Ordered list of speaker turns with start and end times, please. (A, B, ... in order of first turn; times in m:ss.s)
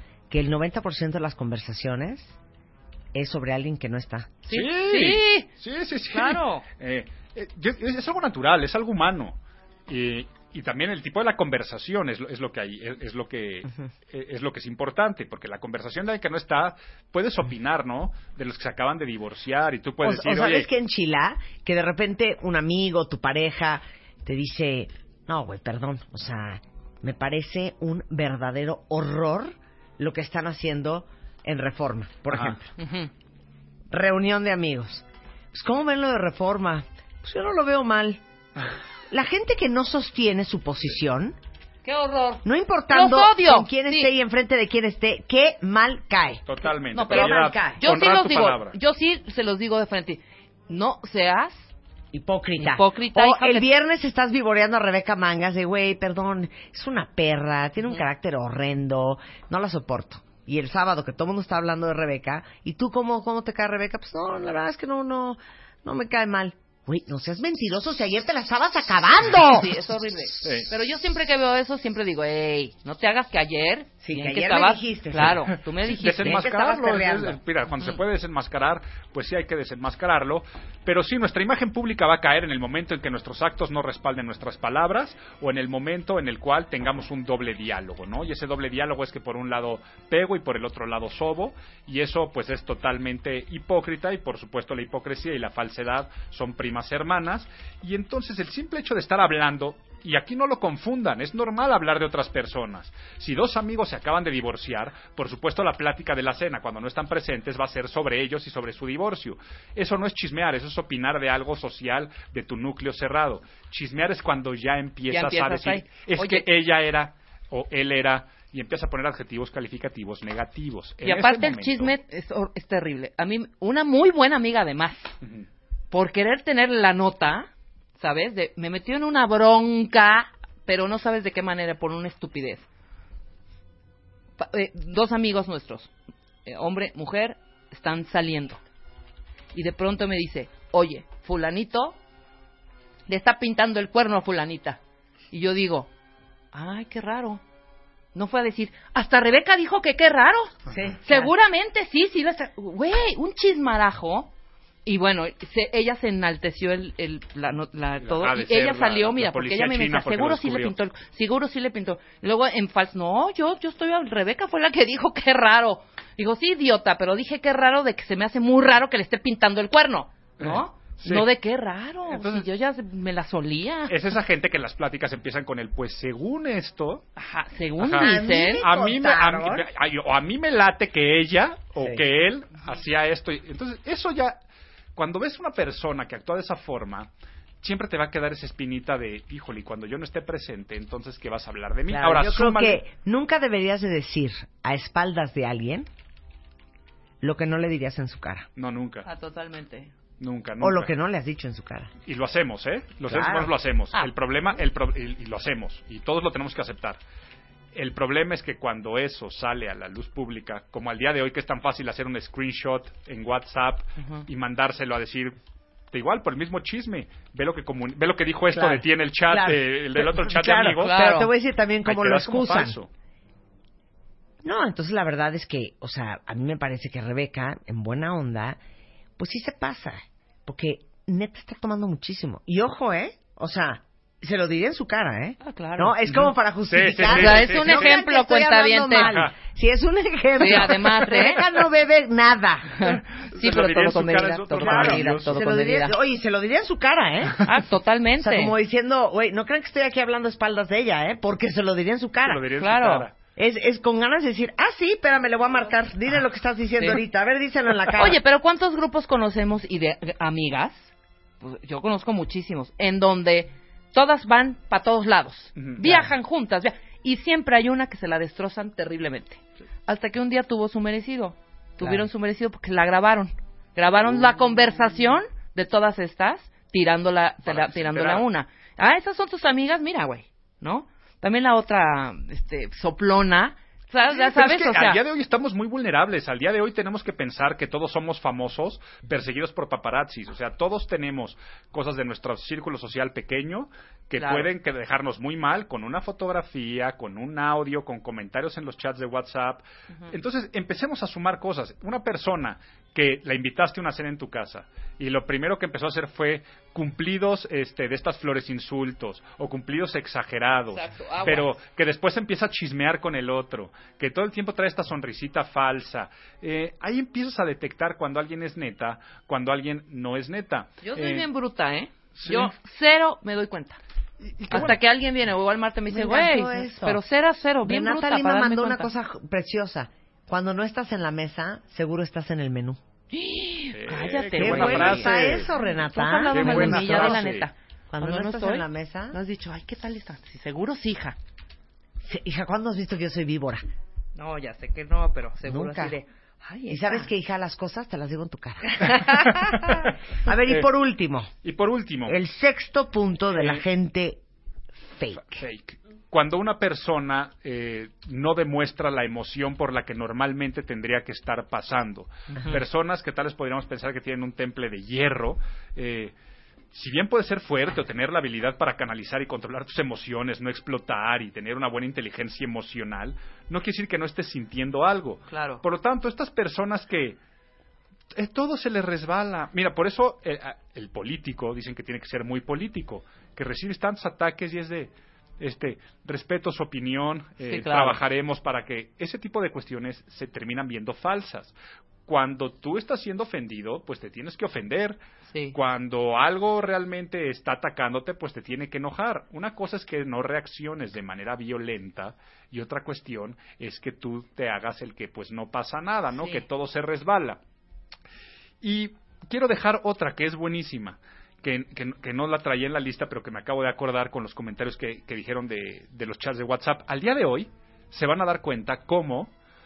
0:00.3-0:02.4 A
0:03.1-0:04.4 A
0:04.5-0:05.5 B
0:04.5-0:20.7 C
0:06.1-0:06.7 B
0:20.0-0:32.6 A
0:32.8-0:33.1 B
0:33.9-0:38.2 A
0:39.1-0:41.4 A
0:41.8-0:44.1 B
0:42.4-0:47.8 A
0:46.5-0:48.8 C
0:47.1-0:51.7 B
0:52.1-1:09.8 A
0:52.6-0:53.7 B
1:09.3-1:16.4 B
1:10.4-1:10.7 C
1:14.0-1:15.4 A
1:15.3-2:02.0 C
1:16.0-1:17.4 A
1:55.1-1:56.5 B
2:01.0-2:05.2 B
2:05.2-2:05.5 C
2:05.9-2:12.7 B
2:14.4-2:15.9 B
2:16.5-2:18.6 B
2:19.5-2:22.0 B
2:23.1-2:24.8 B
2:25.3-2:25.9 B
2:26.5-2:27.4 B
2:28.1-2:30.5 B
2:30.7-2:31.3 A
2:31.1-2:34.3 B
2:34.8-2:54.0 B
2:38.0-2:40.7 C
2:50.4-2:51.3 C
2:52.1-2:52.5 C
2:53.9-2:57.0 C
2:57.2-2:58.6 B
2:57.8-3:04.4 C
2:58.0-2:59.7 A
3:01.8-3:02.0 A
3:05.0-3:07.1 C
3:07.6-3:12.8 C
3:11.9-3:15.9 A
3:17.2-3:18.5 A
3:18.6-3:19.1 C
3:19.0-3:19.9 B
3:20.2-3:20.9 C
3:20.6-3:21.9 A
3:22.1-3:27.0 C
3:23.0-3:23.5 A
3:27.7-3:35.4 C
3:34.0-3:34.3 B
3:35.9-3:41.1 C
3:38.5-3:42.8 A
3:40.8-3:41.3 B
3:41.8-3:42.9 C
3:44.4-3:48.6 A
3:49.2-4:02.9 A
3:55.4-3:56.3 B
3:56.7-3:58.0 C
3:57.0-3:59.2 B
3:59.0-3:59.3 C
4:00.4-4:01.4 B
4:02.8-4:06.0 B
4:03.3-4:05.4 C
4:04.5-4:07.4 A
4:07.4-4:08.5 B
4:08.2-4:12.4 A
4:12.2-4:13.2 C
4:12.6-4:13.1 B
4:13.4-4:18.2 A
4:18.0-4:45.0 B
4:25.6-4:26.1 C
4:34.0-4:34.6 C
4:37.4-4:38.3 C
4:44.1-5:21.3 C
4:54.2-4:54.5 B
5:10.7-5:11.6 B
5:20.8-5:23.8 B
5:22.2-5:22.5 C
5:24.2-5:24.8 C
5:24.5-5:28.9 B
5:25.9-5:27.0 A
5:27.6-5:32.8 A
5:33.1-5:41.2 B
5:33.7-5:35.5 C
5:34.4-5:37.2 A
5:36.3-5:37.5 C
5:37.9-5:39.2 A
5:42.0-5:43.6 A
5:44.2-5:47.1 B
5:45.5-5:46.0 A
5:46.7-5:49.4 A
5:48.8-5:49.7 B
5:49.3-5:49.9 C
5:50.2-5:51.3 A
5:50.4-5:50.7 C
5:51.4-5:52.2 C
5:52.1-5:54.2 A
5:54.9-5:55.4 A
5:55.3-6:06.1 C
6:06.7-6:17.2 C
6:15.3-6:15.6 B
6:18.1-6:31.6 C
6:27.4-6:28.0 B
6:32.1-6:35.0 C
6:35.3-6:35.6 B
6:35.5-6:47.4 C
6:46.2-6:46.5 B
6:48.6-6:59.3 C